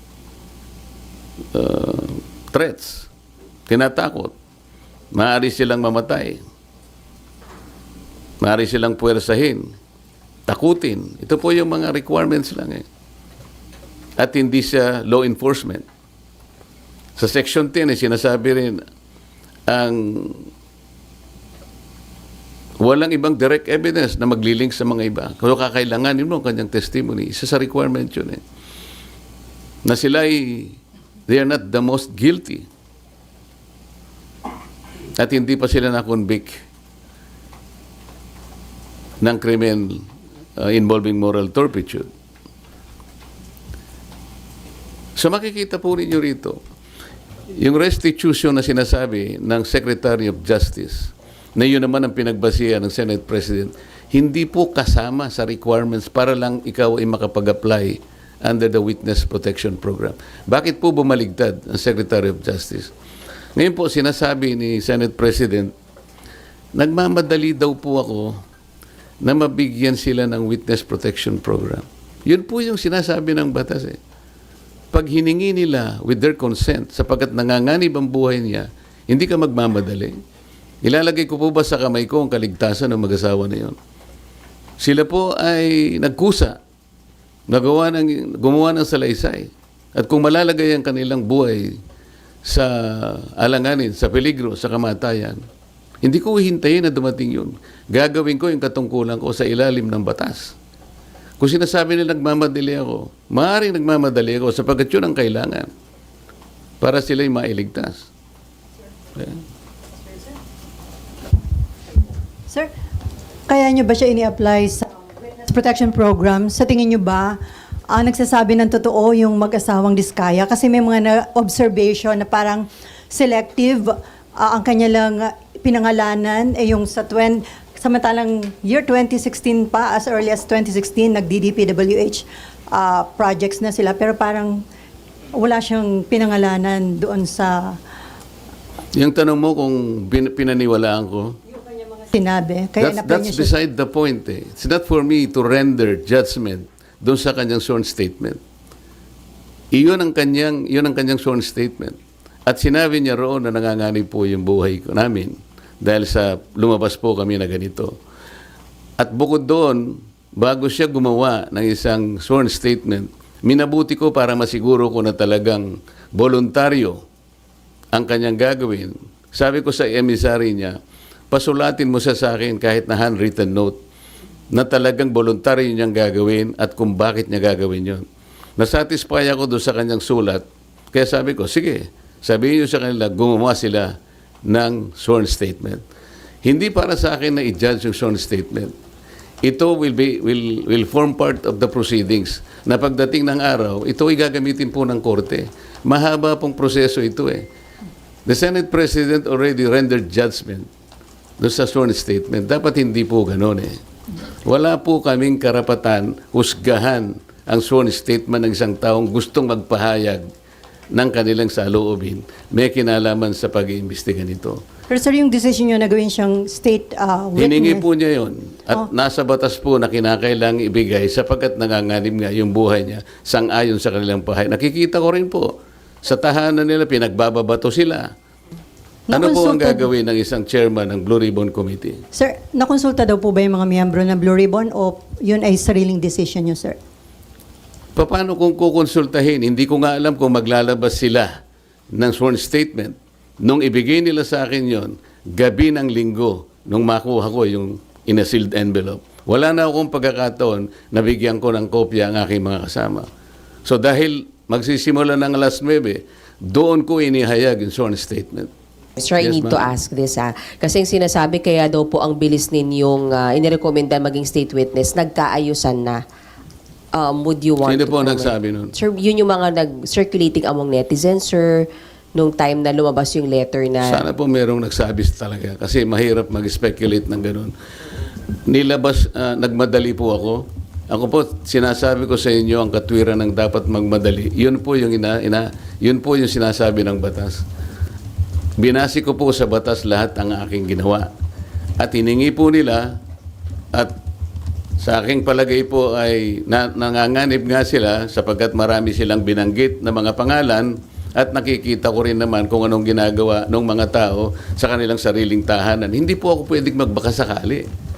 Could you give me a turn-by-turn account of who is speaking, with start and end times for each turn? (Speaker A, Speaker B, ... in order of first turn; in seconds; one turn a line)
Speaker A: 1.5-3.1
Speaker A: 3.7-4.3
Speaker A: 5.1-6.4
Speaker A: 8.4-9.7
Speaker A: 10.5-12.8
Speaker A: 14.2-15.8
Speaker A: 17.2-18.8
Speaker A: 19.7-20.5
Speaker A: 22.8-28.4
Speaker A: 29.8-32.6
Speaker A: 35.2-36.6
Speaker A: 39.2-40.0
Speaker A: 40.6-42.1
Speaker A: 45.2-46.6
Speaker A: 47.5-62.9
Speaker A: 63.5-65.7
Speaker A: 66.8-68.4
Speaker A: 69.2-74.0
Speaker A: 74.9-80.2
Speaker A: 80.8-83.8
Speaker A: 84.8-86.6
Speaker A: 87.5-91.8
Speaker A: 92.4-95.4
Speaker A: 96.0-100.5
Speaker A: 101.4-105.7
Speaker A: 106.8-108.1
Speaker B: 113.5-117.4
Speaker B: 117.9-134.6
Speaker B: 135.3-137.8
Speaker A: 138.9-141.4
Speaker B: 141.6-143.5
Speaker A: 142.8-148.4
Speaker A: 149.7-157.9
Speaker A: 159.0-167.0
Speaker A: 167.9-170.8
Speaker A: 171.3-173.8
Speaker A: 174.5-178.1
Speaker A: 178.6-183.9
Speaker A: 184.5-185.8
Speaker A: 186.4-188.7
Speaker A: 189.4-197.4
Speaker A: 198.2-200.7
Speaker A: 201.4-203.8
Speaker A: 204.4-210.2
Speaker A: 210.9-214.6
Speaker B: 214.9-217.8
Speaker A: 217.3-225.5
Speaker A: 226.0-228.1
Speaker B: 229.1-229.9
Speaker A: 229.1-232.0
Speaker B: 232.1-236.8
Speaker A: 237.9-241.4
Speaker A: 241.9-253.1
Speaker A: 253.7-258.5
Speaker C: 259.0-266.0
Speaker A: 259.2-259.7
Speaker C: 266.9-274.0
Speaker A: 267.6-268.7
Speaker A: 273.8-277.5
Speaker A: 278.5-287.4
Speaker A: 288.6-291.1
Speaker A: 291.8-293.0
Speaker A: 294.8-307.6